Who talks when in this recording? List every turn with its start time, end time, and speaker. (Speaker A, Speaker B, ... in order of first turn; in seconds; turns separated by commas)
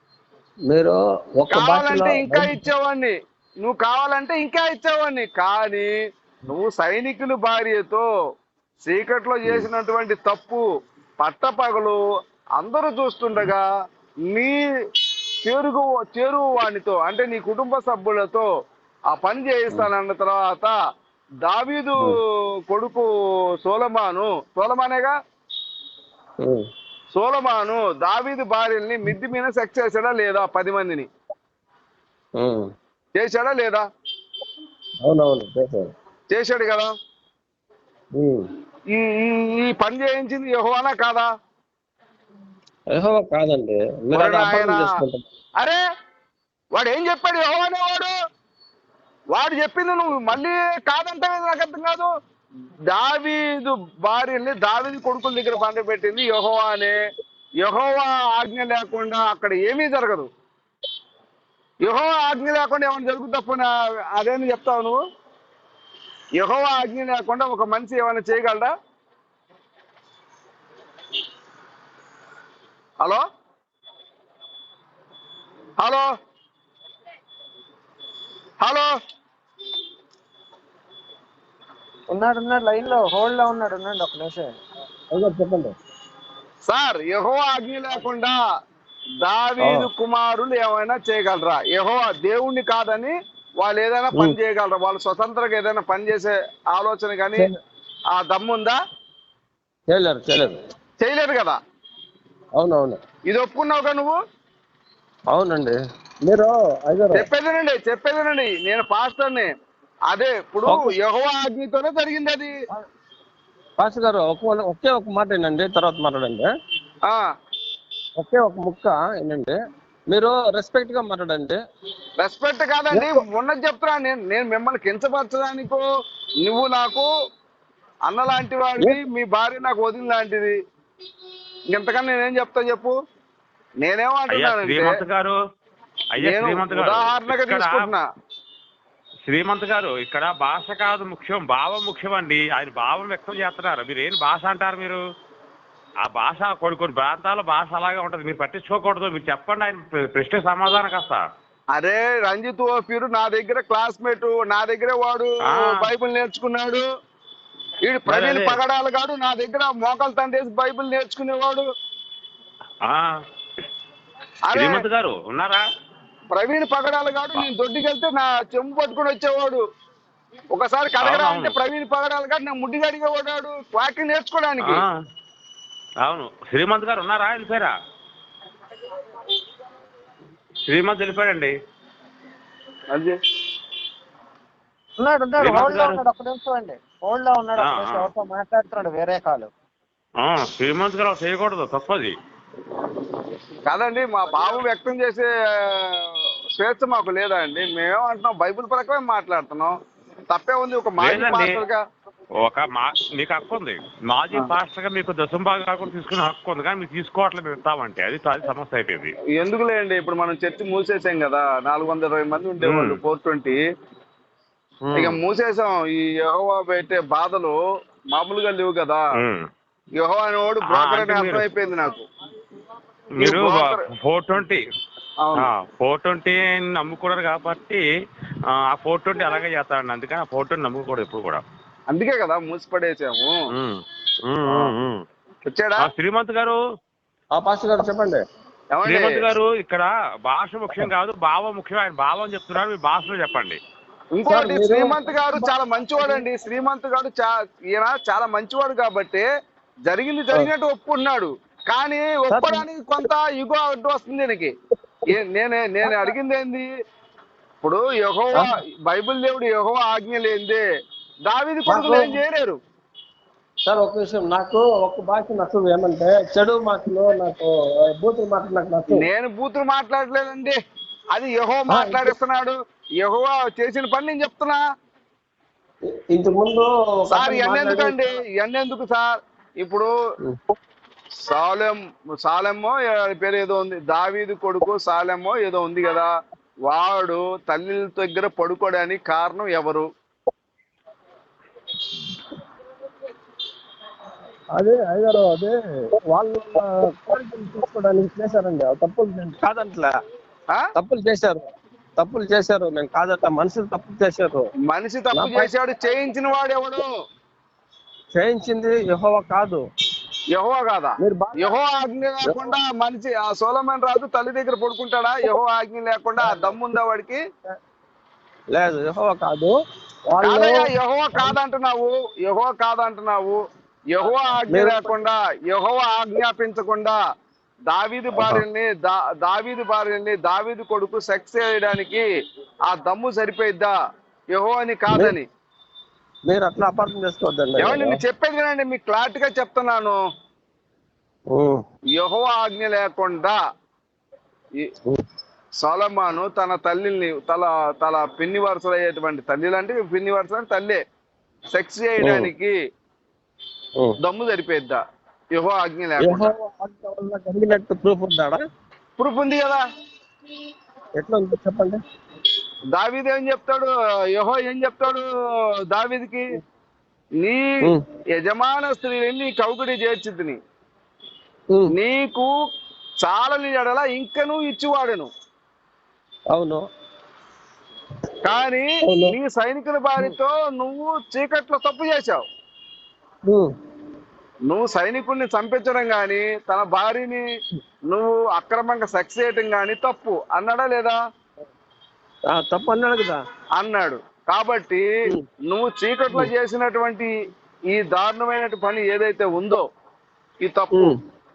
Speaker A: 0.7-2.6, Speaker B: 1.5-5.9, Speaker B: 6.5-8.1, Speaker B: 8.8-10.6, Speaker B: 11.2-12.0, Speaker B: 12.6-13.6, Speaker B: 14.3-14.6, Speaker B: 15.4-18.5, Speaker B: 19.1-20.7, Speaker B: 21.4-22.1, Speaker B: 22.7-23.1, Speaker B: 23.6-25.1, Speaker B: 27.1-31.1, Speaker A: 32.4-32.7, Speaker B: 33.2-33.8, Speaker A: 35.0-35.9, Speaker B: 36.3-36.9, Speaker A: 38.1-38.5, Speaker B: 39.0-41.3, Speaker A: 42.9-45.3, Speaker B: 44.1-44.9, Speaker B: 46.8-48.1, Speaker B: 49.3-52.1, Speaker B: 52.9-57.0, Speaker B: 57.6-60.3, Speaker B: 61.9-65.0, Speaker B: 66.4-68.7, Speaker B: 75.8-76.1, Speaker B: 78.6-78.9, Speaker C: 82.1-84.5, Speaker A: 85.1-85.8, Speaker B: 86.7-88.3, Speaker B: 89.2-97.5, Speaker A: 89.6-89.9, Speaker B: 98.1-98.8, Speaker A: 99.9-100.6, Speaker B: 101.0-101.6, Speaker A: 102.6-103.0, Speaker B: 103.3-104.2, Speaker A: 105.3-107.3, Speaker B: 107.1-109.5, Speaker B: 110.1-112.5, Speaker A: 113.8-116.5, Speaker A: 118.2-119.6, Speaker A: 120.1-121.6, Speaker B: 122.2-125.8, Speaker A: 122.9-123.2, Speaker B: 126.4-127.1, Speaker B: 128.1-130.6, Speaker B: 131.7-132.9, Speaker B: 133.8-135.0, Speaker D: 134.3-135.3, Speaker D: 136.2-137.9, Speaker B: 136.2-138.0, Speaker D: 139.3-145.0, Speaker D: 146.1-151.2, Speaker B: 151.8-156.8, Speaker B: 157.8-161.7, Speaker D: 158.1-158.6, Speaker B: 164.5-164.8, Speaker D: 164.5-165.6, Speaker B: 166.3-169.6, Speaker B: 170.5-174.8, Speaker D: 171.0-171.6, Speaker D: 174.6-174.9, Speaker D: 176.0-177.7, Speaker D: 180.7-181.5, Speaker C: 185.0-189.5, Speaker D: 185.4-186.0, Speaker D: 187.6-188.1, Speaker D: 190.2-192.1, Speaker B: 193.7-195.3, Speaker B: 196.6-199.7, Speaker B: 200.3-201.8, Speaker D: 201.0-201.6, Speaker D: 202.4-209.1, Speaker B: 209.3-213.6, Speaker D: 212.6-213.0, Speaker D: 214.9-215.2, Speaker B: 215.0-217.6, Speaker B: 218.1-219.0, Speaker B: 220.0-222.1, Speaker D: 220.6-221.5, Speaker D: 223.2-224.6, Speaker B: 223.2-223.8, Speaker B: 225.2-225.5, Speaker D: 225.4-227.8, Speaker D: 228.5-231.4, Speaker B: 231.9-233.3, Speaker D: 233.5-235.0, Speaker B: 235.5-235.9, Speaker D: 235.8-236.6, Speaker A: 237.4-238.2, Speaker B: 238.7-239.1, Speaker D: 238.9-243.6, Speaker B: 244.2-249.3, Speaker A: 244.3-246.2, Speaker B: 249.9-254.5, Speaker A: 252.3-252.7, Speaker B: 255.1-256.7, Speaker B: 257.6-260.6, Speaker B: 261.3-262.6, Speaker A: 261.7-262.2, Speaker A: 263.7-269.1, Speaker B: 268.9-270.6, Speaker B: 271.1-274.6, Speaker A: 271.7-272.1, Speaker A: 276.1-278.1, Speaker B: 277.1-279.1, Speaker B: 279.6-279.9, Speaker B: 281.3-286.1, Speaker B: 286.7-289.9, Speaker A: 294.6-299.9, Speaker A: 300.8-301.4, Speaker A: 302.0-304.5, Speaker B: 304.7-306.9, Speaker A: 305.1-305.5, Speaker A: 308.1-309.6, Speaker B: 310.3-317.2, Speaker A: 311.0-311.5, Speaker A: 318.5-319.6, Speaker A: 320.1-320.7, Speaker B: 320.2-323.4, Speaker B: 323.9-326.9, Speaker A: 324.5-324.9, Speaker B: 327.7-332.1, Speaker A: 328.1-328.4, Speaker B: 332.7-333.7, Speaker B: 334.3-335.3, Speaker A: 334.9-335.2, Speaker A: 336.3-338.0, Speaker B: 337.6-340.0, Speaker A: 341.3-341.6, Speaker B: 342.0-343.4, Speaker B: 345.6-350.8, Speaker B: 351.5-352.5, Speaker A: 352.0-352.3, Speaker B: 354.0-354.8, Speaker B: 355.4-356.3, Speaker A: 356.0-358.4, Speaker B: 359.0-359.6, Speaker A: 361.0-361.8, Speaker B: 362.7-365.1, Speaker B: 365.7-366.2, Speaker B: 367.2-367.5, Speaker B: 368.2-370.4, Speaker B: 371.8-372.3, Speaker B: 373.0-375.1, Speaker A: 376.3-376.6, Speaker B: 378.2-382.2, Speaker A: 378.9-379.1, Speaker B: 384.5-387.2, Speaker B: 387.9-391.0, Speaker A: 392.3-393.2, Speaker B: 393.6-394.9, Speaker B: 395.5-397.1, Speaker B: 397.7-399.6, Speaker B: 400.4-400.9